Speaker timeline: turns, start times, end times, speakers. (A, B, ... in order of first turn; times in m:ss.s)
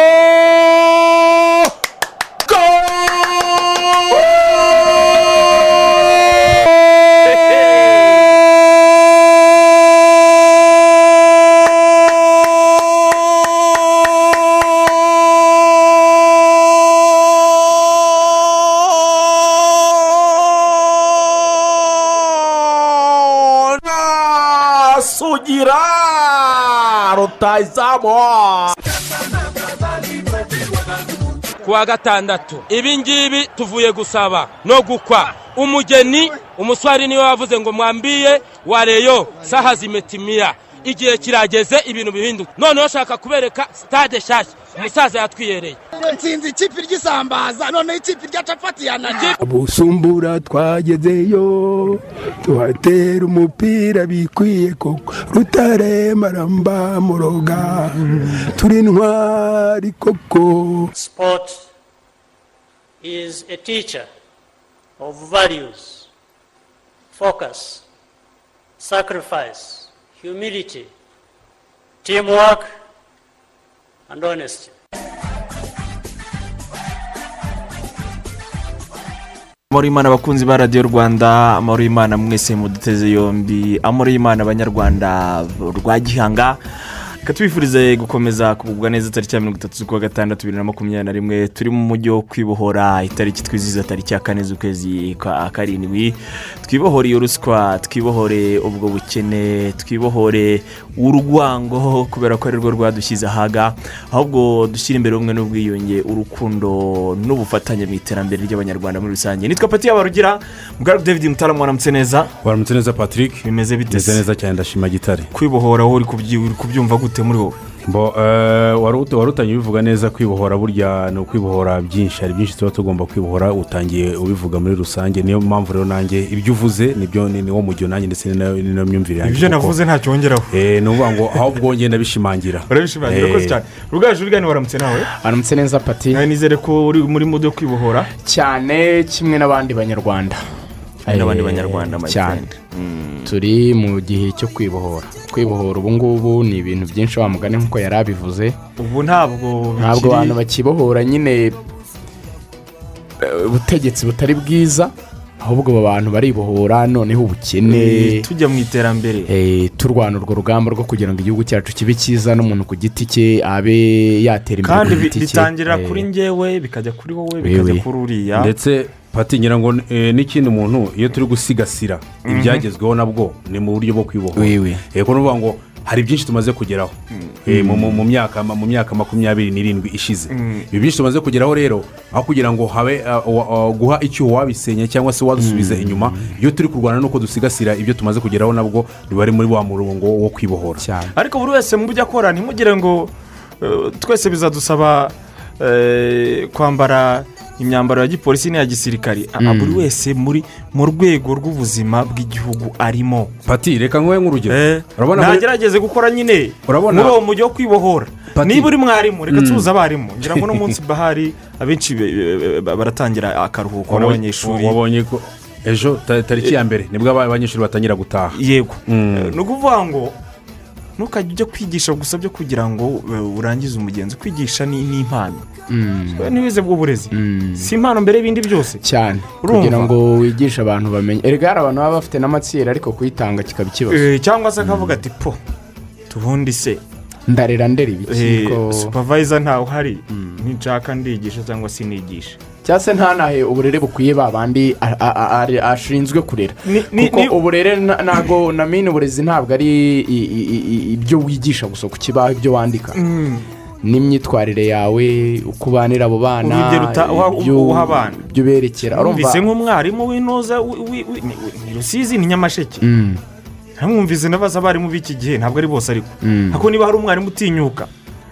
0:02.7-0:03.2 A
0:23.7-0:28.7 A
0:31.6-0:45.8 B
0:46.0-0:49.3 C
0:49.4-1:00.9 D
1:01.0-1:01.6 E
1:03.0-1:04.1 E
1:05.0-1:06.1 E
1:07.1-1:07.8 E
1:08.8-1:10.9 E
1:12.0-1:12.7 E
1:14.1-1:14.7 E
1:19.7-1:26.6 F
1:27.2-1:52.3 F
1:52.4-1:55.3 G
1:53.4-1:54.2 F
1:55.3-1:57.6 F
1:57.9-2:09.8 G
2:09.2-2:10.6 F
2:10.5-2:13.6 G
2:12.7-2:15.1 F
2:15.1-2:16.3 H
2:16.1-2:18.1 F
2:18.2-2:20.4 H
2:21.0-2:22.5 H
2:21.1-2:23.3 F
2:23.2-2:28.6 H
2:28.8-2:30.4 F
2:29.8-2:31.6 H
2:33.2-2:38.3 H
2:37.6-2:39.3 F
2:39.3-2:46.1 H
2:44.6-2:48.5 F
2:47.4-2:47.8 H
2:48.3-3:10.8 G
2:52.2-2:52.7 F
2:54.3-2:54.8 H
2:57.5-2:58.1 H
3:00.3-3:00.7 F
3:05.4-3:06.4 H
3:10.8-3:11.1 H
3:11.2-3:23.4 F
3:19.4-3:19.9 H
3:23.5-3:25.5 G
3:24.5-3:34.8 F
3:26.7-3:27.2 G
3:28.4-3:28.8 G
3:29.3-3:29.7 G
3:30.3-3:30.6 G
3:33.9-3:39.4 G
3:38.3-3:40.2 F
3:41.0-3:45.5 F
3:45.7-3:46.3 H
3:46.2-3:48.8 F
3:47.1-3:47.7 H
3:48.8-3:54.1 H
3:49.4-3:49.9 F
3:53.9-3:55.4 F
3:56.1-3:56.8 F
3:57.3-3:59.0 H
3:58.1-4:02.4 F
4:00.1-4:00.4 H
4:02.6-4:13.0 H
4:06.6-4:07.4 F
4:13.0-4:13.5 F
4:13.8-4:19.5 H
4:16.4-4:18.2 F
4:18.9-4:22.9 F
4:22.8-4:23.2 H
4:23.8-4:27.9 F
4:26.2-4:26.7 H